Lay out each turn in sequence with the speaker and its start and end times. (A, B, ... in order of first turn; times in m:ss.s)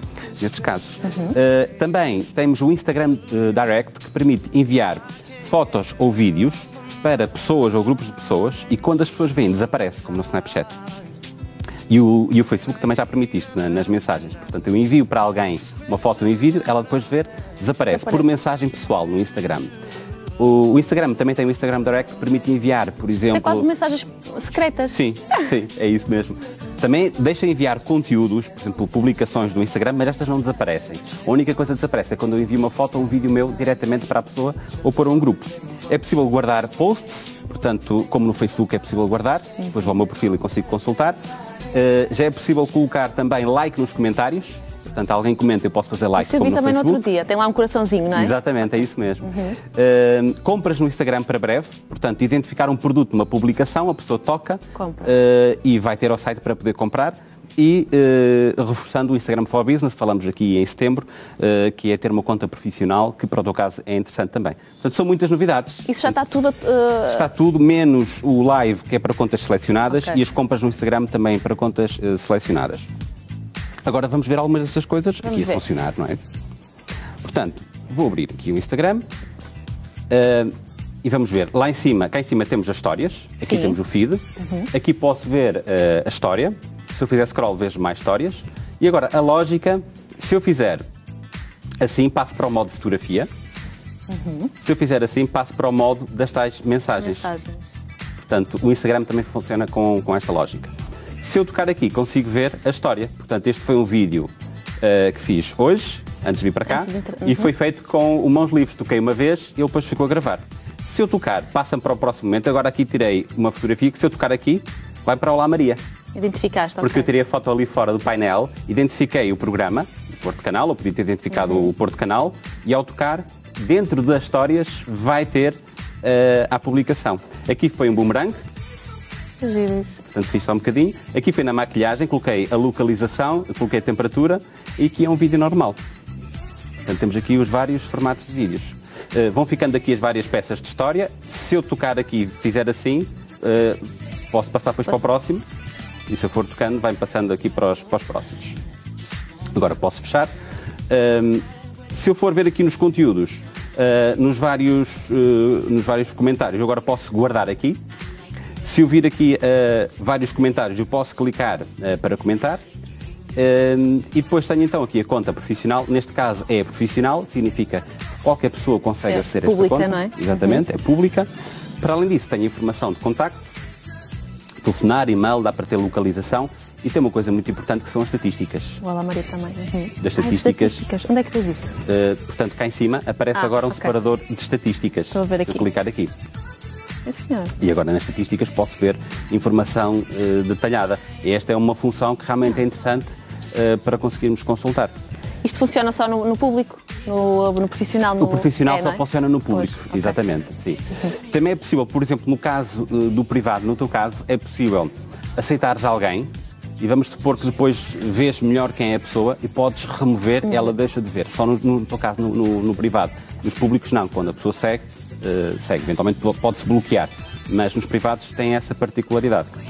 0:00.4-0:10.8 A
0:01.0-0:01.3 B
0:11.9-0:19.7 A
0:17.9-0:18.2 B
0:20.4-0:23.7 A
0:23.3-0:25.0 B
0:24.9-0:41.2 A
0:41.7-0:47.0 A
0:46.2-0:48.4 B
0:48.1-1:06.2 A
0:49.2-0:49.6 B
0:54.8-0:55.1 B
1:05.8-1:07.3 B
1:07.0-1:12.9 A
1:09.9-1:10.2 B
1:13.8-1:16.2 A
1:15.2-1:15.6 B
1:17.2-1:19.0 A
1:20.1-1:30.8 A
1:23.4-1:23.8 B
1:24.4-1:24.7 B
1:31.8-1:33.3 A
1:34.1-1:34.5 B
1:34.6-1:37.3 A
1:37.0-1:37.7 B
1:38.2-1:55.8 A
1:46.7-1:47.5 B
1:56.2-1:57.1 B
1:56.8-2:08.4 A
2:01.4-2:01.7 B
2:09.4-2:10.0 B
2:10.1-2:15.8 A
2:16.8-2:23.8 A
2:24.3-2:25.4 A
2:26.1-2:28.6 A
2:29.5-2:30.3 A
2:30.9-2:37.8 A
2:38.6-2:42.6 A
2:43.4-2:51.3 A
2:49.1-2:50.6 B
2:51.8-2:53.4 A
2:54.6-2:58.8 A
2:58.8-3:01.7 B
3:00.0-3:00.9 A
3:01.8-3:06.1 A
3:03.4-3:03.9 B
3:05.1-3:05.7 B
3:07.0-3:07.6 B
3:07.6-3:14.9 A
3:15.4-3:20.2 B
3:18.2-3:39.5 A